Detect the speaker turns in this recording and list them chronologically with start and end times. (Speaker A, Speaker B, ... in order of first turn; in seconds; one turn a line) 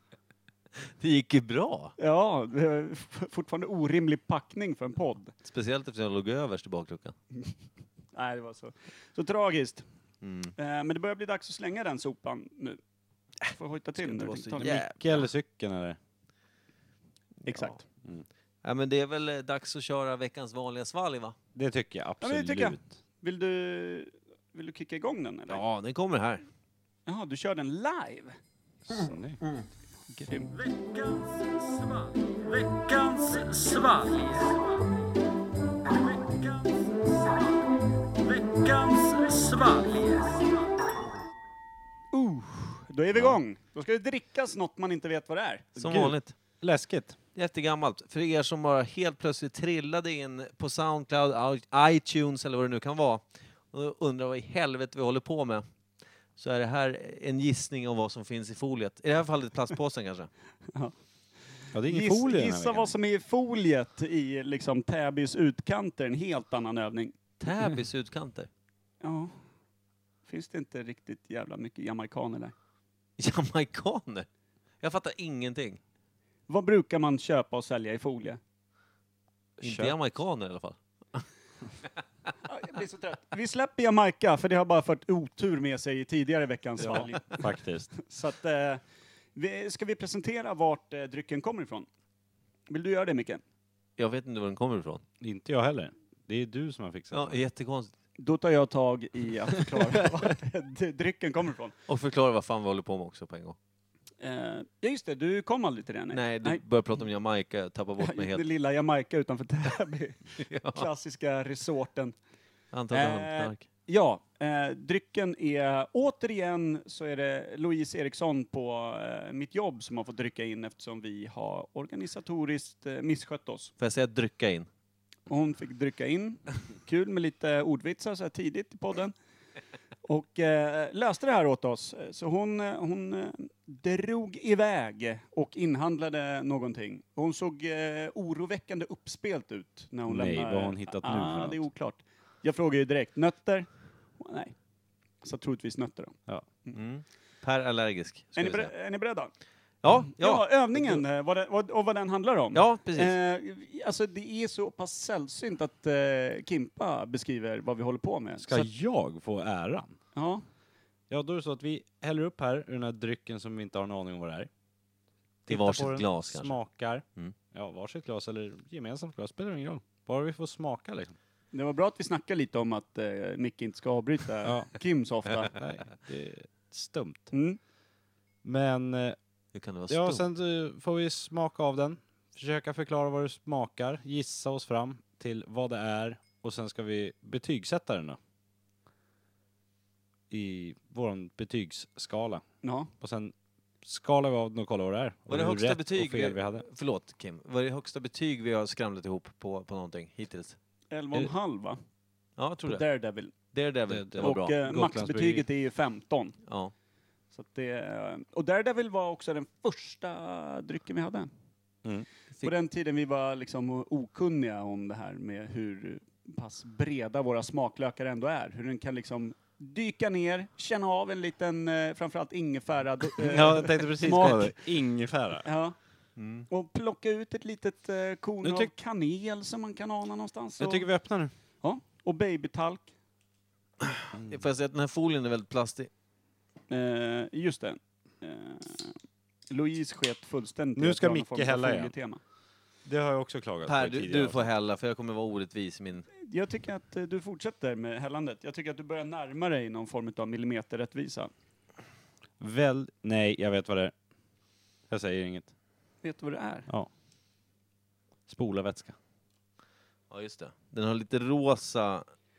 Speaker A: 1.0-1.9
Speaker B: 2.0-5.3
Speaker A: 5.4-7.1
Speaker B: 8.1-9.8
Speaker A: 10.2-10.5
Speaker B: 10.6-12.8
Speaker B: 13.5-14.8
Speaker A: 14.0-15.3
Speaker C: 14.6-16.0
Speaker B: 17.4-17.8
Speaker A: 17.5-17.8
Speaker A: 18.6-21.3
Speaker C: 21.5-22.9
Speaker B: 22.2-25.6
Speaker A: 25.5-26.4
Speaker B: 27.1-28.3
Speaker C: 28.9-29.4
Speaker B: 30.1-30.6
Speaker B: 32.9-34.4
Speaker B: 36.3-37.0
Speaker B: 38.5-40.1
Speaker B: 42.1-45.8
Speaker C: 43.1-43.4
Speaker A: 45.8-46.3
Speaker C: 45.8-47.2
Speaker A: 47.3-55.6
Speaker A: 56.4-60.3
Speaker C: 61.7-62.9
Speaker B: 61.9-67.1
Speaker A: 67.4-68.5
Speaker B: 69.0-69.3
Speaker B: 70.2-72.5
Speaker A: 73.2-74.3
Speaker A: 74.8-75.8
Speaker B: 76.5-78.4
Speaker A: 79.6-81.2
Speaker C: 79.6-79.9
Speaker B: 82.5-88.8
Speaker C: 86.8-87.9
Speaker B: 89.3-91.8
Speaker B: 92.7-93.4
Speaker A: 94.0-95.0
Speaker C: 95.2-97.4
Speaker A: 97.1-97.9
Speaker B: 98.2-101.7
Speaker A: 101.9-103.5
Speaker B: 104.2-106.6
Speaker A: 106.1-108.4
Speaker B: 108.0-112.1
Speaker A: 110.4-110.8
Speaker A: 112.7-113.6
Speaker B: 112.9-123.7
Speaker A: 123.8-124.7
Speaker B: 125.3-129.1
Speaker B: 130.0-144.5
Speaker C: 140.1-141.7
Speaker B: 145.2-146.8
Speaker A: 146.7-148.7
Speaker B: 148.3-149.3
Speaker A: 149.8-151.0
Speaker B: 150.1-158.7
Speaker A: 152.5-153.1
Speaker C: 158.4-159.9
Speaker B: 160.1-160.4
Speaker C: 161.1-164.5
Speaker C: 165.4-171.2
Speaker A: 165.5-166.6
Speaker B: 171.5-175.5
Speaker C: 174.4-174.7
Speaker C: 175.5-177.3
Speaker B: 177.3-177.6
Speaker C: 178.4-179.2
Speaker A: 179.5-180.2
Speaker C: 179.9-188.2
Speaker C: 190.3-192.4
Speaker B: 192.6-192.9
Speaker C: 193.0-196.6
Speaker A: 195.3-200.6
Speaker B: 200.9-201.8
Speaker A: 202.4-204.5
Speaker B: 202.7-203.3
Speaker C: 203.9-205.4
Speaker B: 204.2-206.3
Speaker A: 206.5-206.7
Speaker B: 207.3-211.3
Speaker B: 212.4-224.6
Speaker C: 223.2-225.4
Speaker B: 225.4-225.8
Speaker A: 226.2-226.5
Speaker B: 226.5-230.9
Speaker C: 228.4-228.7
Speaker C: 230.6-231.3
Speaker B: 231.6-232.9
Speaker A: 233.8-235.9
Speaker C: 234.1-234.4
Speaker B: 236.7-238.9
Speaker B: 239.5-242.2
Speaker C: 240.8-241.9
Speaker C: 242.8-244.5
Speaker A: 243.7-246.1
Speaker B: 246.2-251.3
Speaker C: 252.4-253.9
Speaker C: 254.9-255.5
Speaker B: 256.0-256.7
Speaker C: 258.3-258.9
Speaker A: 260.1-262.1